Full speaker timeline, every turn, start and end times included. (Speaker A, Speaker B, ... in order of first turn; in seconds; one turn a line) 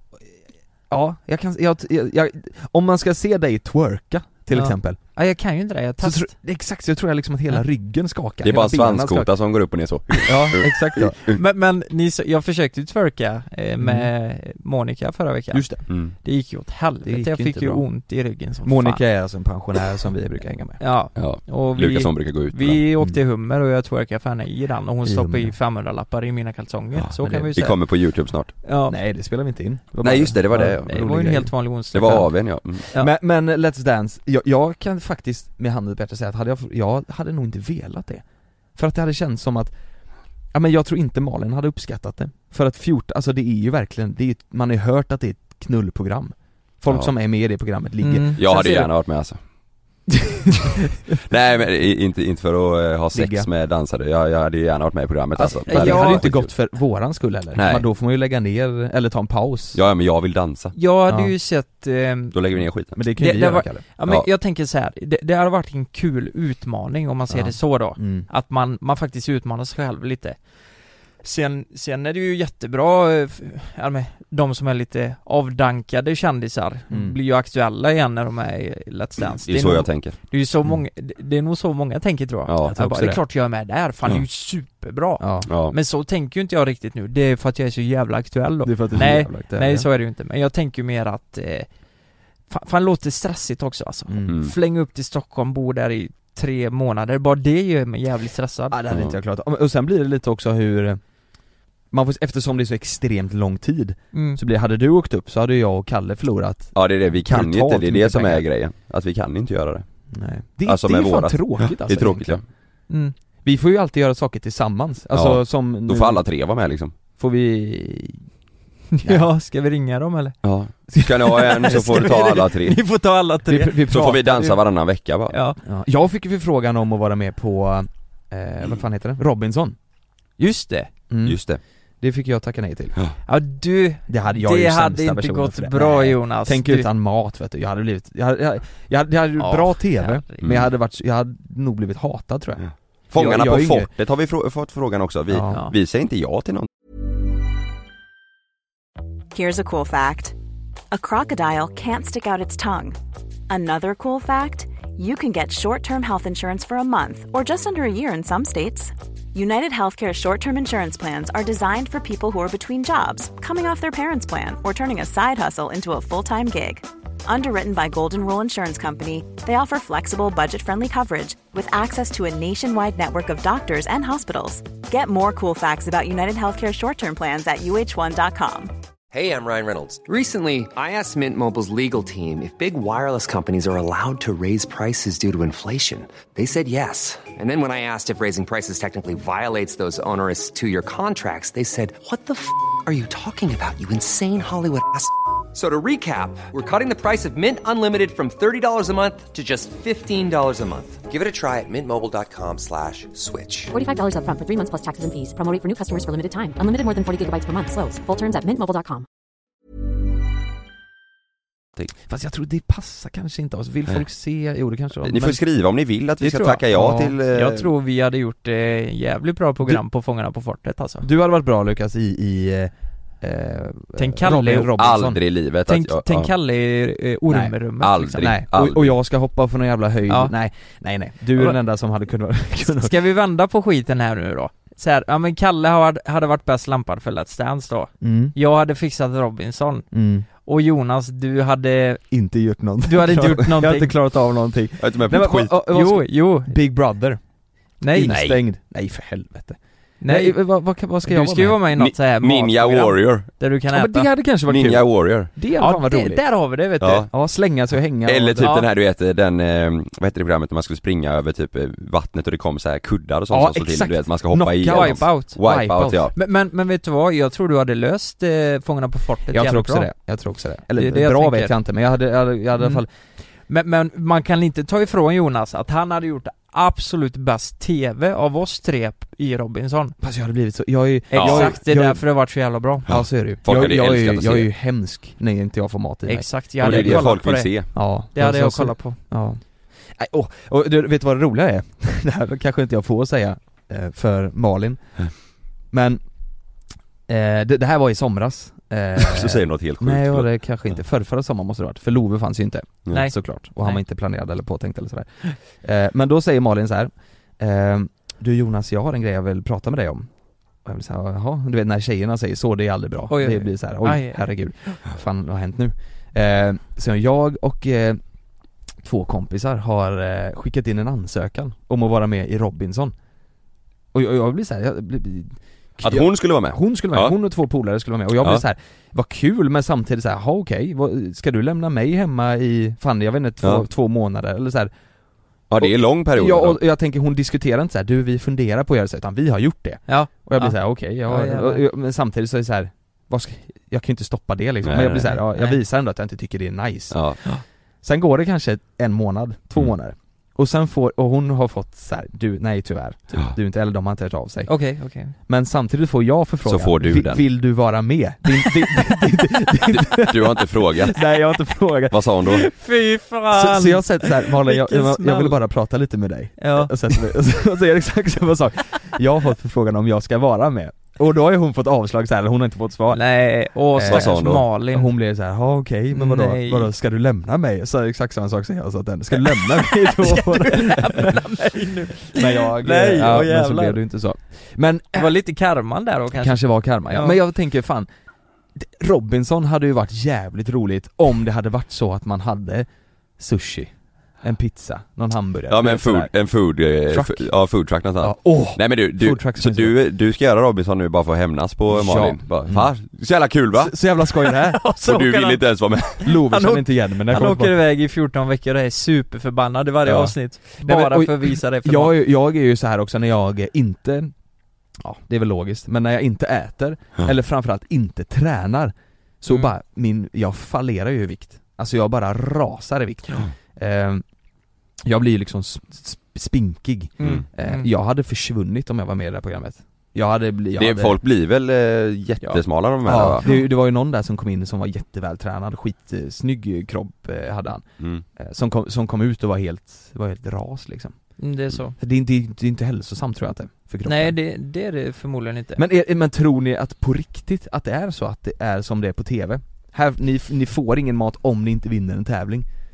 Speaker A: 0.9-5.0
Speaker B: 4.5-6.3
Speaker A: 6.0-9.3
Speaker C: 8.4-11.4
Speaker A: 10.2-11.2
Speaker B: 11.2-15.7
Speaker A: 13.8-14.1
Speaker A: 15.5-15.8
Speaker C: 15.9-16.1
Speaker B: 16.2-19.0
Speaker A: 17.0-17.9
Speaker A: 18.6-20.8
Speaker B: 20.8-27.8
Speaker C: 21.1-22.8
Speaker A: 25.0-25.5
Speaker A: 27.2-27.7
Speaker C: 27.6-28.5
Speaker B: 28.6-28.9
Speaker A: 28.9-31.5
Speaker C: 30.0-31.3
Speaker B: 30.8-32.3
Speaker C: 31.9-32.8
Speaker A: 32.9-38.2
Speaker A: 38.8-39.7
Speaker A: 40.5-48.9
Speaker C: 46.9-47.1
Speaker B: 48.0-48.4
Speaker C: 48.4-49.4
Speaker A: 50.1-50.7
Speaker C: 51.2-56.5
Speaker A: 53.1-53.5
Speaker A: 55.4-59.8
Speaker B: 55.7-56.2
Speaker C: 57.5-57.8
Speaker C: 59.7-60.7
Speaker B: 60.7-62.3
Speaker C: 62.3-63.0
Speaker A: 62.9-63.8
Speaker B: 63.2-70.4
Speaker A: 67.3-68.3
Speaker B: 71.2-91.7
Speaker A: 76.9-77.2
Speaker C: 79.5-80.2
Speaker C: 82.5-82.7
Speaker A: 82.7-83.2
Speaker A: 85.2-85.5
Speaker C: 85.5-85.7
Speaker A: 88.6-89.9
Speaker B: 92.5-98.8
Speaker A: 94.1-94.4
Speaker C: 94.3-94.5
Speaker A: 98.7-101.0
Speaker C: 98.9-99.2
Speaker A: 101.9-108.5
Speaker B: 104.1-104.4
Speaker C: 106.7-109.8
Speaker A: 110.1-112.4
Speaker C: 110.6-112.4
Speaker A: 113.4-116.2
Speaker C: 115.1-116.9
Speaker A: 117.1-118.2
Speaker B: 118.9-120.3
Speaker C: 120.4-122.8
Speaker A: 120.9-122.2
Speaker B: 121.5-124.6
Speaker A: 123.5-124.3
Speaker C: 123.9-125.3
Speaker B: 125.3-125.6
Speaker A: 125.6-129.8
Speaker B: 130.4-130.9
Speaker A: 131.1-131.4
Speaker C: 131.2-131.6
Speaker A: 132.0-133.0
Speaker B: 133.3-136.9
Speaker A: 134.1-143.9
Speaker B: 139.4-140.4
Speaker C: 140.4-140.7
Speaker C: 142.6-146.7
Speaker A: 145.3-145.6
Speaker D: 149.3-150.3
Speaker D: 150.9-153.0
Speaker D: 153.5-178.7
Speaker E: 179.1-203.7
Speaker F: 203.7-209.1
Speaker A: 212.1-215.4
Speaker C: 215.0-217.7
Speaker A: 216.2-217.2
Speaker B: 217.3-221.1
Speaker A: 221.0-225.2
Speaker B: 224.0-224.7
Speaker C: 224.8-226.3
Speaker B: 225.7-228.3
Speaker A: 227.3-227.5
Speaker C: 227.8-228.9
Speaker A: 228.2-232.9
Speaker B: 230.1-230.3
Speaker B: 232.7-239.9
Speaker A: 238.0-238.3
Speaker A: 239.9-240.3
Speaker B: 240.4-242.0
Speaker A: 242.1-247.2
Speaker B: 242.8-243.9
Speaker C: 244.8-245.5
Speaker B: 245.7-246.6
Speaker B: 247.8-248.2
Speaker A: 247.9-251.6
Speaker C: 248.0-248.4
Speaker B: 250.0-250.4
Speaker B: 251.0-254.1
Speaker C: 251.7-253.3
Speaker A: 253.7-256.2
Speaker C: 254.5-255.3
Speaker B: 255.6-257.1
Speaker C: 256.8-257.1
Speaker A: 257.1-258.5
Speaker C: 258.0-266.1
Speaker B: 258.4-258.7
Speaker A: 263.3-266.1
Speaker B: 264.7-265.4
Speaker B: 266.1-269.9
Speaker A: 269.3-272.9
Speaker B: 270.8-271.5
Speaker B: 273.5-279.9
Speaker A: 280.0-282.0
Speaker B: 281.1-282.9
Speaker C: 281.1-281.5
Speaker A: 282.9-287.1
Speaker C: 282.9-284.5
Speaker B: 286.1-289.0
Speaker C: 286.6-287.7
Speaker A: 287.7-295.1
Speaker A: 295.7-296.0
Speaker A: 297.1-310.1
Speaker C: 299.0-300.3
Speaker B: 302.9-303.8
Speaker A: 310.6-318.0
Speaker B: 313.1-314.8
Speaker A: 318.8-322.9
Speaker A: 323.9-334.7
Speaker C: 325.8-327.1
Speaker C: 335.5-336.6
Speaker A: 335.6-347.0
Speaker B: 339.9-341.6
Speaker C: 344.6-345.2
Speaker C: 346.9-347.2
Speaker A: 347.8-354.5
Speaker B: 354.4-355.1
Speaker A: 355.3-362.3
Speaker C: 356.4-357.2
Speaker C: 359.7-361.0
Speaker C: 361.9-362.4
Speaker B: 362.3-365.4
Speaker A: 363.3-373.0
Speaker B: 366.4-366.8
Speaker B: 372.9-374.9
Speaker A: 373.7-381.2
Speaker C: 373.9-374.4
Speaker B: 375.9-376.7
Speaker B: 379.2-383.8
Speaker A: 382.1-385.1
Speaker B: 384.9-387.2
Speaker A: 386.1-387.9
Speaker A: 388.5-392.7
Speaker A: 393.2-396.1
Speaker C: 395.5-403.7
Speaker A: 396.9-397.3
Speaker A: 398.0-399.7
Speaker A: 401.7-402.7
Speaker A: 403.5-404.6
Speaker B: 404.3-411.9
Speaker C: 404.8-406.0
Speaker A: 406.0-407.5
Speaker A: 409.8-414.1
Speaker A: 414.8-424.0
Speaker A: 424.8-431.0
Speaker B: 427.0-427.7
Speaker C: 430.6-433.2
Speaker A: 432.8-437.6
Speaker C: 437.8-438.0
Speaker A: 438.2-441.0
Speaker B: 441.2-441.8
Speaker A: 441.8-444.1
Speaker B: 443.8-445.6
Speaker A: 445.6-452.5